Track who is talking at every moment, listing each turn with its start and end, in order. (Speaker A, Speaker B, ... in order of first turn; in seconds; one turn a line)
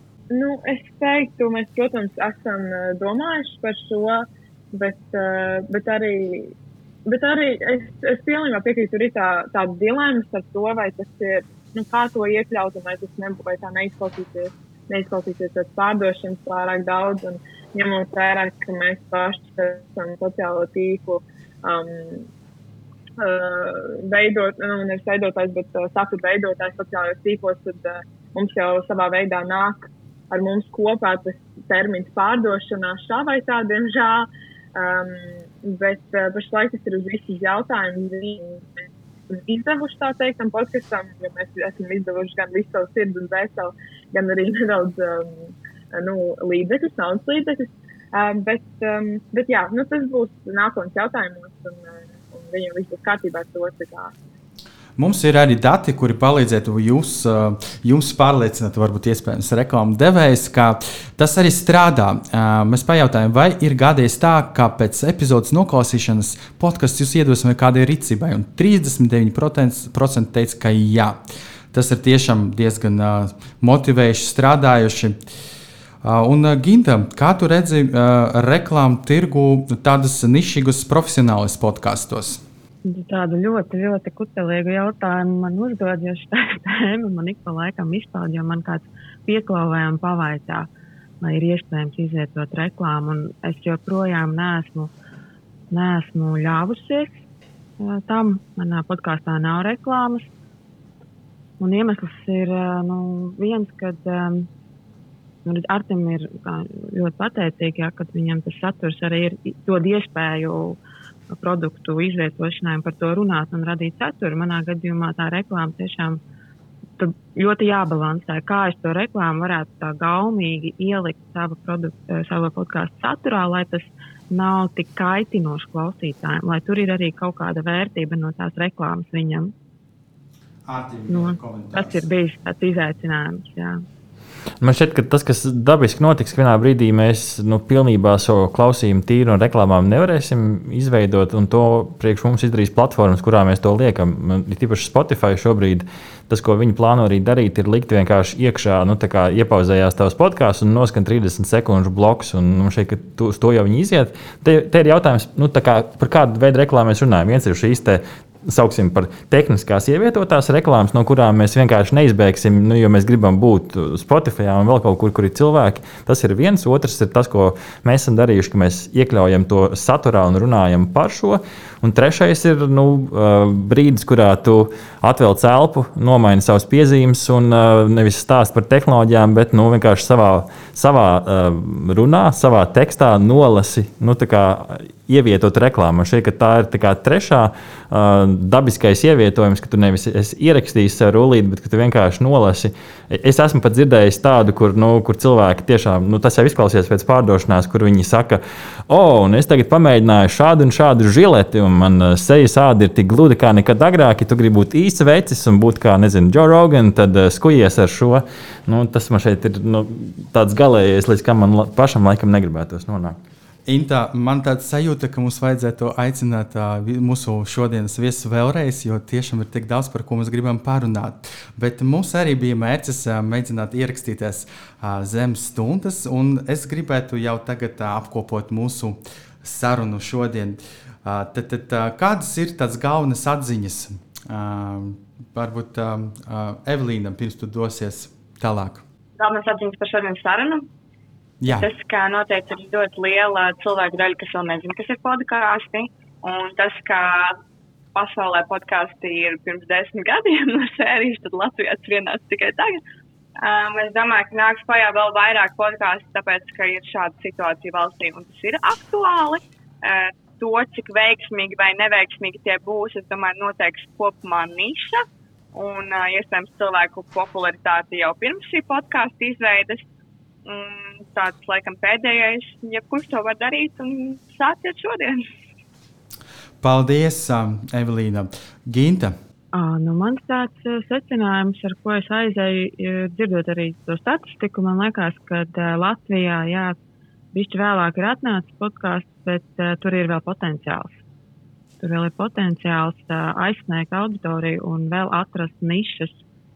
Speaker A: 0.3-6.5
Speaker A: 7.1-22.3
Speaker A: 23.2-54.1
Speaker B: 55.0-71.2
Speaker B: 71.7-75.2
Speaker B: 76.0-82.4
Speaker C: 82.8-90.7
Speaker C: 91.2-94.9
Speaker C: 95.7-97.2
Speaker C: 97.8-100.3
Speaker C: 101.6-104.5
Speaker C: 105.5-110.8
Speaker C: 111.3-116.2
Speaker C: 117.0-129.5
Speaker B: 130.7-132.0
Speaker C: 131.1-133.8
Speaker D: 134.6-213.2
Speaker B: 213.7-238.8
Speaker E: 239.2-240.7
Speaker B: 241.4-241.7
Speaker E: 241.5-247.4
Speaker E: 247.9-252.8
Speaker E: 253.4-269.9
Speaker E: 270.4-275.3
Speaker B: 276.6-279.1
Speaker C: 279.5-286.8
Speaker C: 287.3-291.0
Speaker C: 291.8-296.2